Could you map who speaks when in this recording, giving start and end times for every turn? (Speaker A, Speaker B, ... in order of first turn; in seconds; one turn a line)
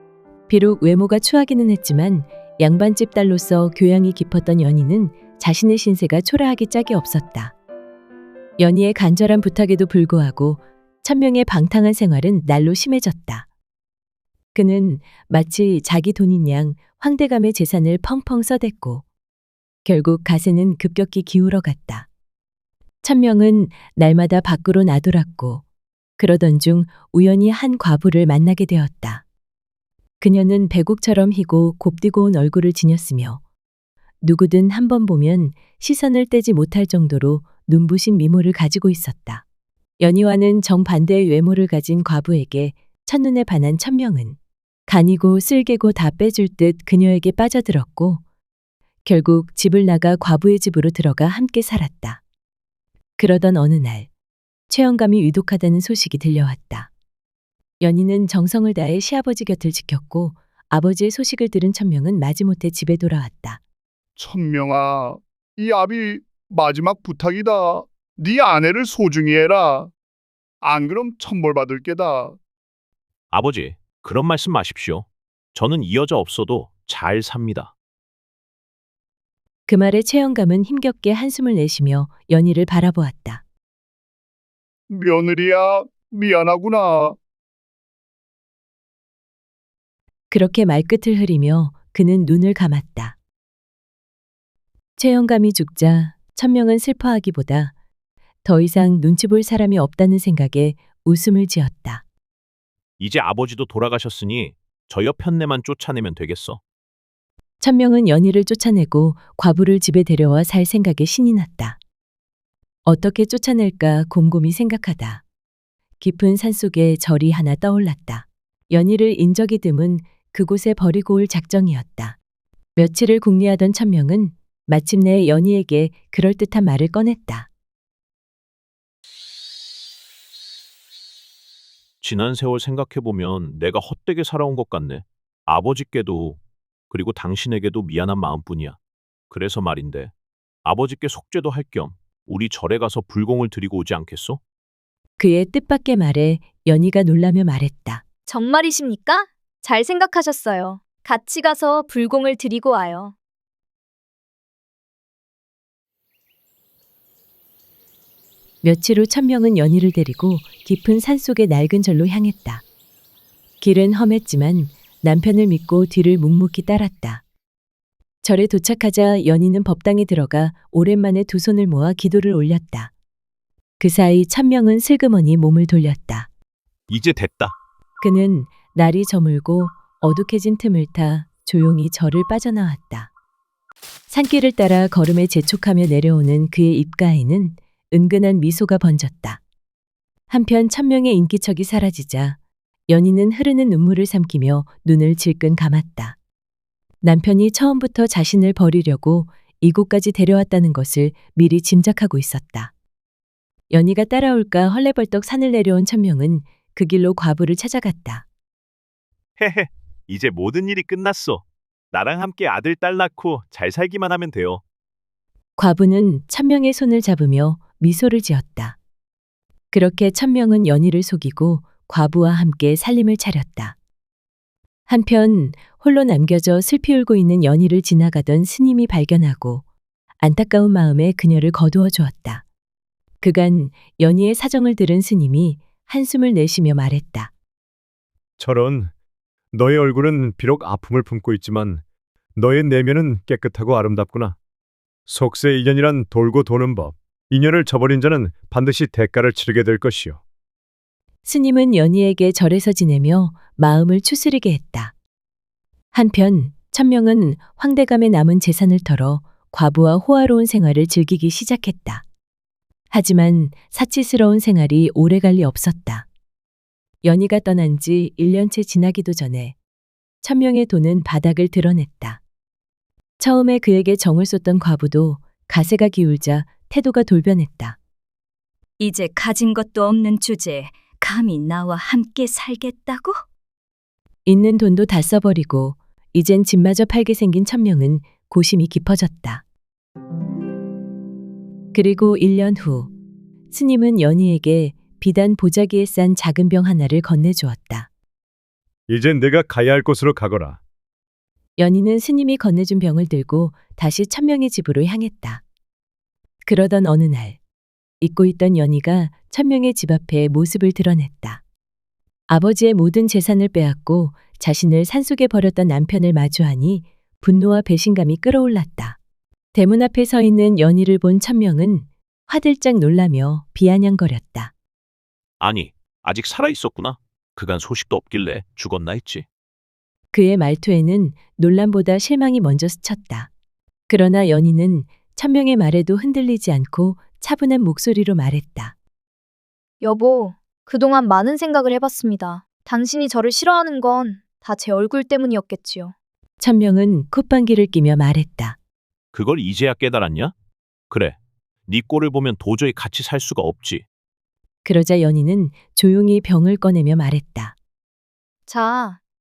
Speaker A: 0.5-7.5
Speaker A: 8.6-13.5
Speaker A: 14.5-19.0
Speaker A: 19.9-22.1
Speaker A: 23.0-25.6
Speaker A: 26.2-29.2
Speaker A: 30.2-33.4
Speaker A: 34.2-39.4
Speaker A: 40.0-48.2
Speaker A: 49.0-52.2
Speaker A: 53.2-54.1
Speaker A: 54.7-56.9
Speaker A: 57.8-63.6
Speaker B: 64.2-69.9
Speaker B: 70.6-72.4
Speaker C: 73.3-77.7
Speaker A: 79.7-83.4
Speaker B: 84.9-87.2
Speaker A: 90.3-93.2
Speaker A: 95.0-97.7
Speaker A: 98.4-102.0
Speaker C: 103.0-106.6
Speaker A: 107.6-111.8
Speaker A: 112.8-115.2
Speaker A: 116.0-122.2
Speaker A: 122.8-127.5
Speaker C: 132.0-136.4
Speaker C: 136.9-138.8
Speaker C: 139.3-140.1
Speaker C: 140.6-144.4
Speaker A: 145.2-148.0
Speaker D: 148.3-153.1
Speaker A: 158.6-162.6
Speaker A: 163.6-167.2
Speaker A: 168.2-172.9
Speaker A: 173.8-176.3
Speaker C: 176.9-177.5
Speaker A: 178.0-183.1
Speaker A: 184.1-189.4
Speaker A: 190.3-192.4
Speaker A: 192.9-196.2
Speaker A: 197.0-202.7
Speaker A: 203.7-208.2
Speaker C: 209.4-211.4
Speaker C: 211.9-214.6
Speaker A: 215.6-218.8
Speaker A: 219.7-223.8
Speaker A: 224.9-229.6
Speaker A: 230.2-232.4
Speaker A: 233.2-237.3
Speaker E: 238.4-238.9
Speaker E: 239.5-241.8
Speaker E: 242.3-244.3
Speaker E: 245.1-250.2
Speaker A: 251.2-254.9
Speaker A: 255.9-262.0
Speaker A: 262.9-266.1
Speaker A: 267.0-269.5
Speaker A: 270.2-272.2
Speaker A: 273.2-277.8
Speaker F: 278.8-283.2
Speaker A: 284.2-289.4
Speaker A: 291.7-292.9
Speaker A: 293.5-297.9
Speaker E: 298.9-300.6
Speaker A: 301.6-305.4
Speaker A: 306.4-307.4
Speaker A: 308.0-311.4
Speaker A: 312.3-319.0
Speaker A: 319.5-324.5
Speaker C: 325.4-329.2
Speaker A: 330.1-333.3
Speaker A: 333.9-338.7
Speaker D: 339.8-345.9
Speaker A: 346.4-348.6
Speaker C: 349.1-350.3
Speaker C: 350.9-353.8
Speaker A: 354.6-357.5
Speaker D: 358.5-359.0